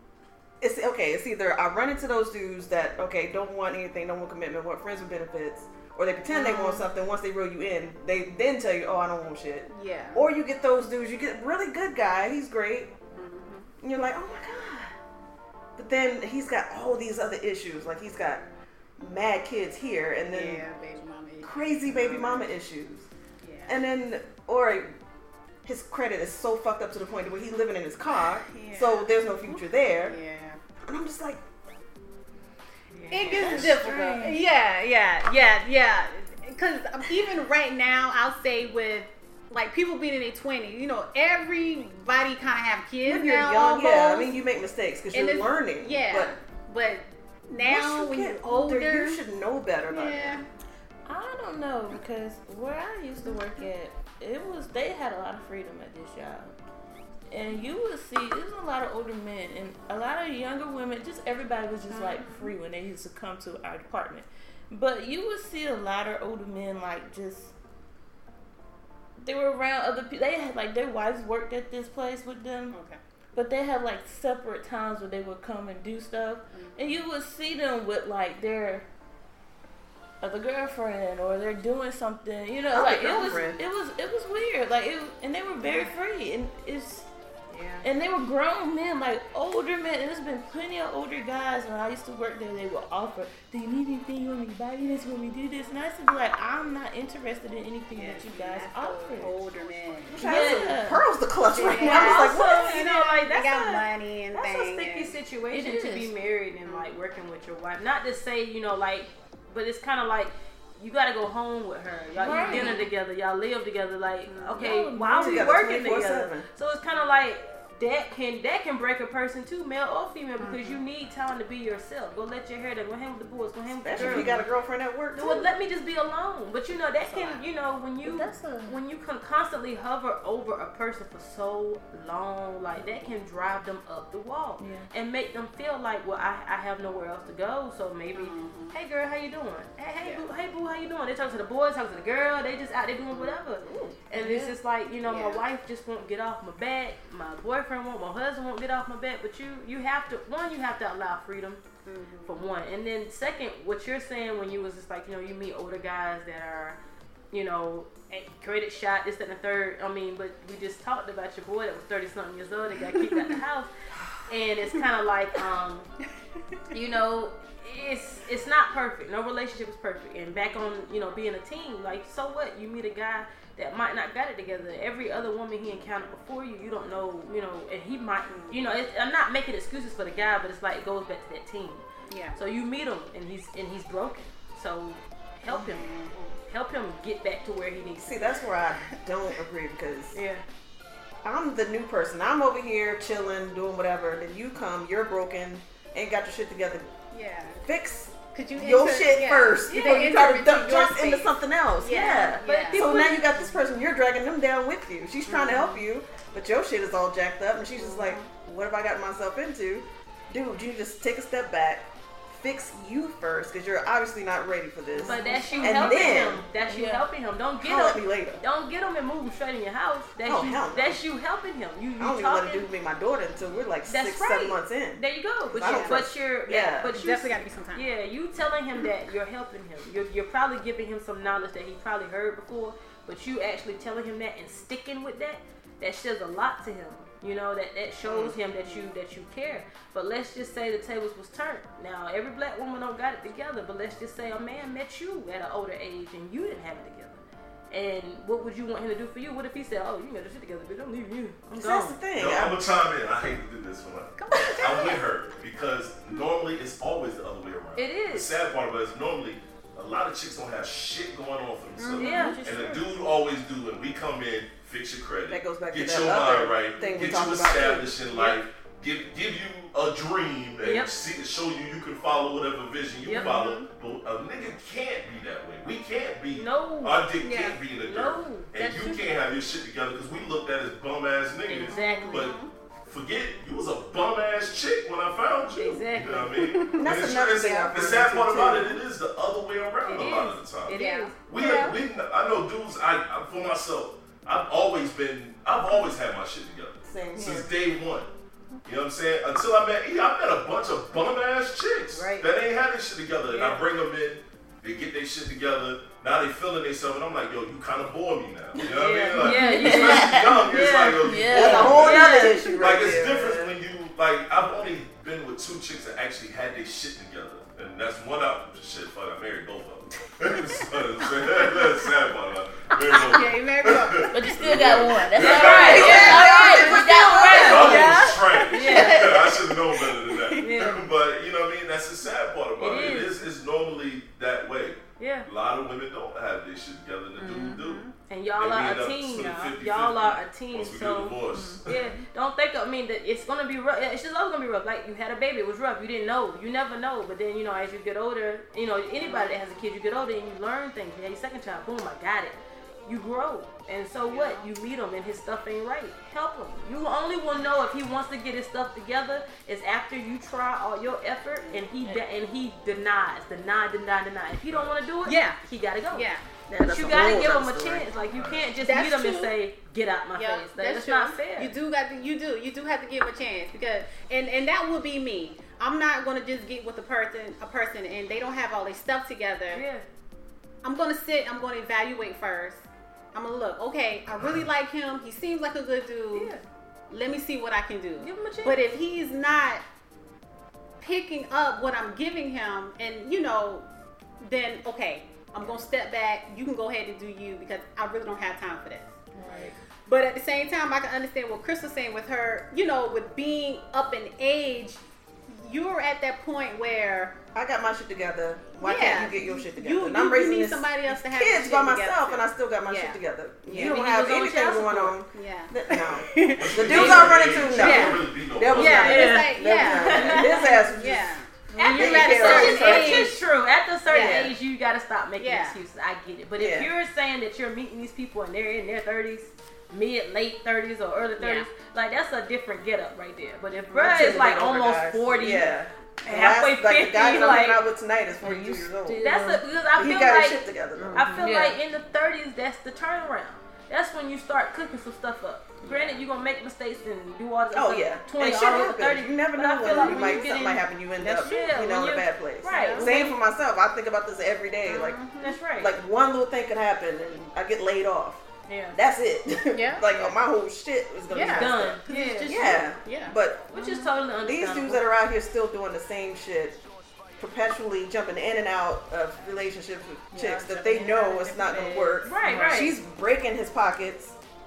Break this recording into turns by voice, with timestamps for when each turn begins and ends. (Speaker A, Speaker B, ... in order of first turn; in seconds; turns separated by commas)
Speaker A: 0.6-12.9, Speaker B: 6.3-6.8, Speaker B: 9.7-10.2, Speaker B: 13.1-13.7, Speaker A: 13.8-14.9, Speaker A: 15.8-18.4, Speaker A: 19.0-20.6, Speaker B: 20.2-22.5, Speaker A: 21.4-23.1, Speaker B: 23.4-23.8, Speaker A: 23.7-24.9, Speaker A: 25.6-30.2, Speaker B: 28.2-30.6, Speaker A: 30.8-31.4, Speaker C: 32.9-33.6, Speaker B: 33.1-44.4, Speaker D: 33.3-34.4, Speaker A: 33.4-33.8, Speaker A: 43.0-46.3, Speaker B: 45.1-49.2, Speaker A: 47.6-50.4, Speaker B: 49.9-50.4, Speaker D: 51.0-56.5, Speaker D: 57.3-67.5, Speaker B: 61.9-62.5, Speaker D: 69.2-72.8, Speaker B: 72.7-73.0, Speaker D: 73.3-78.8, Speaker B: 76.5-76.9, Speaker D: 80.2-87.1, Speaker A: 82.7-83.6, Speaker B: 85.6-85.9, Speaker C: 87.5-87.8, Speaker D: 87.8-99.4, Speaker B: 97.9-100.3, Speaker A: 100.1-102.7, Speaker D: 100.2-101.0, Speaker C: 101.5-124.5, Speaker B: 101.6-105.1, Speaker D: 105.5-106.1, Speaker B: 106.7-107.0, Speaker D: 112.2-112.8, Speaker B: 112.2-112.9, Speaker B: 114.3-114.5, Speaker D: 114.5-115.5, Speaker A: 115.2-116.5, Speaker B: 120.4-120.8, Speaker A: 123.8-125.5, Speaker D: 124.0-124.3, Speaker C: 125.1-151.6, Speaker B: 127.0-127.4, Speaker D: 128.0-128.8, Speaker D: 134.6-134.9, Speaker B: 138.1-138.8, Speaker B: 143.1-143.4, Speaker A: 143.7-143.9, Speaker D: 144.1-144.5, Speaker B: 145.0-145.4, Speaker B: 151.8-152.4, Speaker C: 152.2-156.8, Speaker C: 157.3-163.7, Speaker C: 164.3-165.9, Speaker C: 166.7-185.9, Speaker B: 178.3-178.6, Speaker B: 182.1-182.4, Speaker B: 185.5-186.4, Speaker C: 186.5-188.3, Speaker A: 188.0-190.1, Speaker C: 190.1-190.4, Speaker A: 191.2-196.9, Speaker B: 197.1-197.6, Speaker A: 197.6-216.4, Speaker B: 198.3-202.9, Speaker C: 199.7-200.2, Speaker C: 201.9-203.2, Speaker B: 205.3-205.8, Speaker B: 207.8-208.3, Speaker B: 215.0-216.3, Speaker C: 215.0-222.7, Speaker D: 215.8-217.0, Speaker A: 217.6-218.4, Speaker A: 220.2-221.0, Speaker A: 222.0-225.0, Speaker C: 223.9-252.0, Speaker A: 225.5-226.9, Speaker B: 225.5-226.0, Speaker B: 226.9-227.8, Speaker A: 238.0-238.3, Speaker A: 251.5-252.9, Speaker E: 252.1-298.1, Speaker B: 254.2-255.1, Speaker C: 257.7-258.4, Speaker B: 261.8-262.8, Speaker C: 262.0-262.4, Speaker D: 262.0-262.8, Speaker A: 265.3-267.9, Speaker C: 266.8-267.2, Speaker C: 270.6-270.9, Speaker C: 273.0-273.3, Speaker B: 273.2-273.7, Speaker C: 276.3-277.0, Speaker B: 277.2-277.6, Speaker C: 277.8-278.5, Speaker B: 278.6-279.2, Speaker C: 281.4-282.3, Speaker B: 281.7-282.5, Speaker C: 285.5-286.4, Speaker B: 286.4-288.0, Speaker A: 286.7-288.8, Speaker C: 289.8-291.1, Speaker B: 289.9-291.8, Speaker A: 296.8-297.5, Speaker E: 298.6-326.3, Speaker C: 301.9-302.3, Speaker C: 303.3-303.6, Speaker C: 308.7-312.5, Speaker D: 309.2-311.9, Speaker A: 311.4-313.5, Speaker B: 322.9-324.1, Speaker D: 324.1-328.0, Speaker C: 325.1-327.9, Speaker A: 325.5-328.0, Speaker B: 325.6-326.8, Speaker E: 327.3-337.8, Speaker B: 327.4-330.8, Speaker C: 328.5-329.1, Speaker C: 330.4-330.9, Speaker C: 332.6-333.2, Speaker C: 335.0-335.3, Speaker B: 337.2-337.9, Speaker C: 338.1-371.5, Speaker E: 338.4-341.8, Speaker B: 341.3-341.9, Speaker B: 349.0-349.6, Speaker B: 354.1-354.5, Speaker B: 361.4-361.6, Speaker B: 365.0-365.4, Speaker B: 365.9-366.3, Speaker A: 366.5-367.9, Speaker E: 368.1-368.5, Speaker B: 368.6-369.3, Speaker B: 370.1-379.6, Speaker C: 379.5-379.8, Speaker B: 380.6-386.4, Speaker C: 386.1-386.4, Speaker B: 386.9-389.6, Speaker C: 388.0-388.6, Speaker B: 390.8-393.7, Speaker B: 394.2-398.9, Speaker C: 399.1-399.5, Speaker B: 399.9-407.2, Speaker A: 407.3-423.1, Speaker B: 408.6-413.8, Speaker C: 413.5-415.0, Speaker B: 415.1-423.2, Speaker E: 416.4-419.1, Speaker C: 416.6-417.2, Speaker C: 418.5-420.6, Speaker C: 421.5-437.6, Speaker B: 423.9-424.3, Speaker A: 423.9-424.3, Speaker B: 425.2-425.6, Speaker A: 426.4-426.7, Speaker B: 431.2-431.5, Speaker B: 433.7-434.2, Speaker A: 433.7-439.0, Speaker B: 437.0-437.4, Speaker D: 438.2-439.4, Speaker C: 438.9-453.1, Speaker A: 439.8-441.1, Speaker B: 440.8-441.2, Speaker D: 441.2-441.6, Speaker B: 445.6-446.0, Speaker A: 447.5-455.0, Speaker B: 449.6-450.4, Speaker B: 452.5-453.1, Speaker B: 454.6-455.4, Speaker C: 455.2-455.7, Speaker A: 455.6-463.5, Speaker C: 458.5-458.8, Speaker B: 459.5-460.1, Speaker B: 461.1-463.9, Speaker C: 461.1-462.7, Speaker C: 463.5-464.8, Speaker A: 464.2-466.6, Speaker A: 467.2-474.1, Speaker B: 470.1-472.5, Speaker C: 472.0-472.8